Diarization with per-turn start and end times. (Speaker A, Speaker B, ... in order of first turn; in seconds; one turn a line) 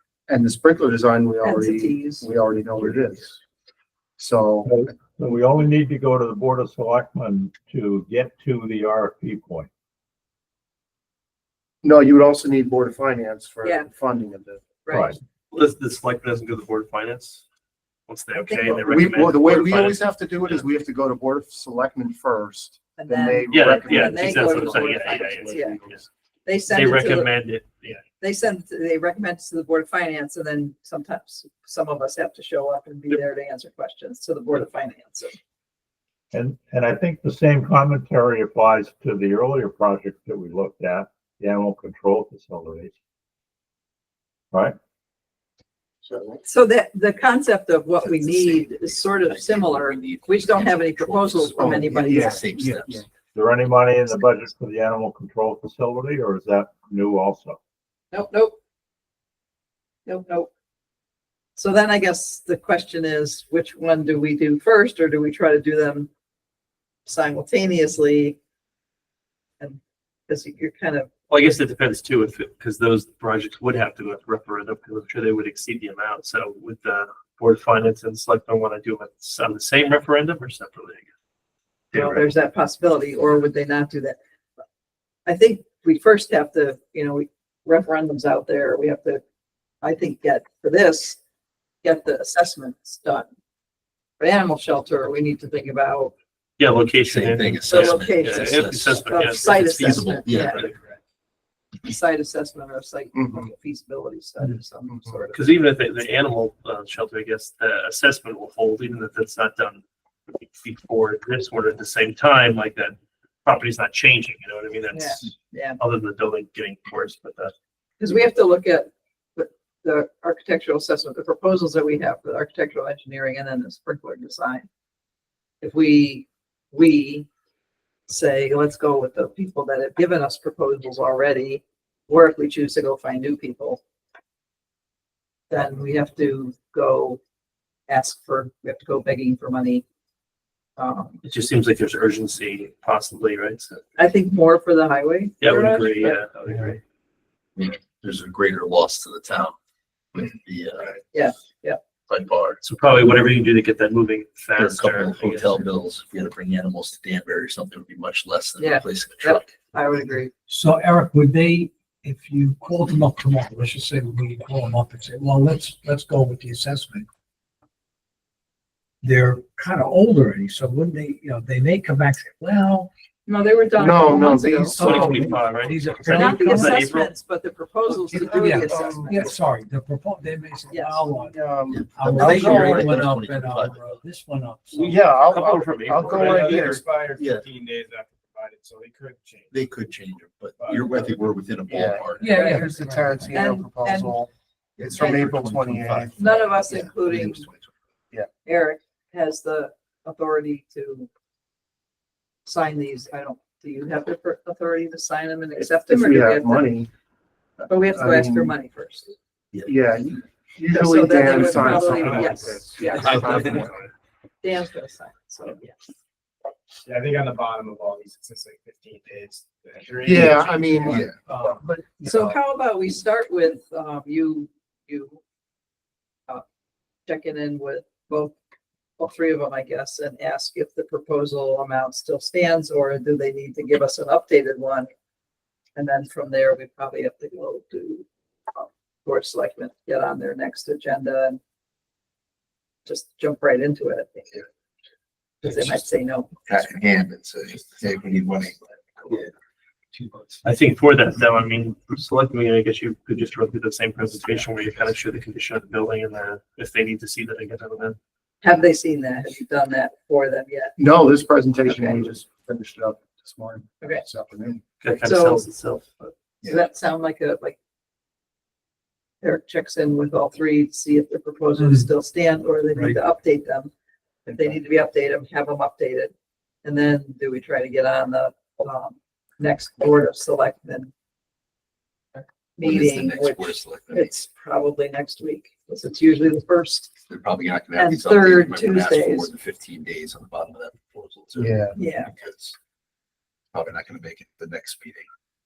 Speaker A: 0.3-3.4
Speaker B: 1.4-2.3
Speaker A: 4.2-4.7
Speaker C: 4.6-9.7
Speaker A: 11.8-14.6
Speaker B: 14.8-15.2
Speaker C: 14.9-15.2
Speaker D: 15.5-17.4
Speaker D: 18.1-20.6
Speaker B: 18.3-18.8
Speaker A: 18.7-26.0
Speaker B: 23.0-25.8
Speaker D: 23.5-26.1
Speaker B: 26.4-27.3
Speaker D: 26.7-28.0
Speaker B: 28.2-35.3
Speaker C: 36.3-42.9
Speaker A: 46.0-46.4
Speaker B: 46.4-52.4
Speaker E: 48.0-53.0
Speaker A: 51.6-53.0
Speaker C: 53.3-57.6
Speaker B: 58.1-58.6
Speaker B: 60.0-60.5
Speaker B: 61.6-66.1
Speaker B: 67.0-68.4
Speaker B: 69.6-71.1
Speaker D: 71.3-81.0
Speaker D: 81.9-82.3
Speaker B: 81.9-84.2
Speaker B: 85.2-89.2
Speaker B: 89.8-91.2
Speaker B: 91.8-93.3
Speaker B: 94.2-96.1
Speaker D: 96.6-100.8
Speaker E: 97.0-100.6
Speaker B: 97.7-100.7
Speaker B: 101.8-105.5
Speaker A: 103.1-103.5
Speaker A: 104.9-105.2
Speaker D: 105.3-117.5
Speaker B: 114.9-115.8
Speaker B: 118.0-124.6
Speaker B: 125.6-127.3
Speaker B: 128.1-133.8
Speaker B: 135.5-137.2
Speaker B: 137.9-139.8
Speaker B: 140.8-141.2
Speaker D: 141.2-143.8
Speaker B: 144.0-146.2
Speaker D: 145.4-146.8
Speaker E: 147.6-149.5
Speaker E: 150.1-151.1
Speaker B: 151.1-151.8
Speaker E: 152.1-152.6
Speaker D: 152.6-155.6
Speaker E: 154.6-159.5
Speaker B: 158.6-160.3
Speaker F: 160.5-167.1
Speaker F: 169.0-172.9
Speaker B: 173.2-175.3
Speaker A: 173.8-175.2
Speaker F: 174.0-176.9
Speaker D: 174.8-177.1
Speaker B: 176.1-179.4
Speaker A: 178.0-179.2
Speaker F: 178.3-185.0
Speaker B: 180.7-181.1
Speaker A: 181.3-182.8
Speaker E: 181.7-183.9
Speaker D: 184.7-186.8
Speaker A: 184.8-186.8
Speaker G: 186.1-189.6
Speaker E: 187.2-187.4
Speaker E: 189.5-192.4
Speaker G: 190.6-191.4
Speaker A: 191.7-194.3
Speaker F: 192.1-193.9
Speaker B: 192.3-192.7
Speaker B: 193.3-194.2
Speaker E: 194.8-197.8
Speaker A: 194.8-197.2
Speaker B: 195.0-195.3
Speaker B: 196.2-197.5
Speaker B: 198.4-201.1
Speaker B: 202.4-206.8
Speaker A: 205.6-206.9
Speaker A: 207.6-208.6
Speaker B: 207.7-209.1
Speaker A: 209.6-213.6
Speaker B: 210.7-213.6
Speaker D: 211.5-211.9
Speaker G: 212.8-213.9
Speaker D: 212.9-213.5
Speaker E: 213.0-213.6
Speaker B: 214.4-215.9
Speaker G: 216.8-220.8
Speaker A: 220.0-222.4
Speaker F: 220.8-221.6
Speaker E: 220.9-221.1
Speaker B: 222.0-225.2
Speaker B: 227.1-228.3
Speaker B: 229.0-234.9
Speaker B: 235.8-241.4
Speaker B: 242.8-244.4
Speaker B: 245.4-246.3
Speaker E: 246.4-249.3
Speaker E: 249.9-250.4
Speaker D: 250.4-258.0
Speaker B: 258.4-260.8
Speaker A: 260.8-264.6
Speaker B: 261.6-262.1
Speaker D: 264.8-266.1
Speaker B: 265.0-265.5
Speaker B: 266.4-267.6
Speaker B: 269.2-273.7
Speaker F: 271.6-271.9
Speaker A: 274.3-274.5
Speaker B: 274.3-276.1
Speaker B: 276.6-280.9
Speaker B: 282.6-286.9
Speaker E: 282.6-284.2
Speaker E: 287.1-292.6
Speaker B: 287.8-289.3
Speaker A: 291.4-291.7
Speaker B: 291.7-292.1
Speaker E: 293.5-295.1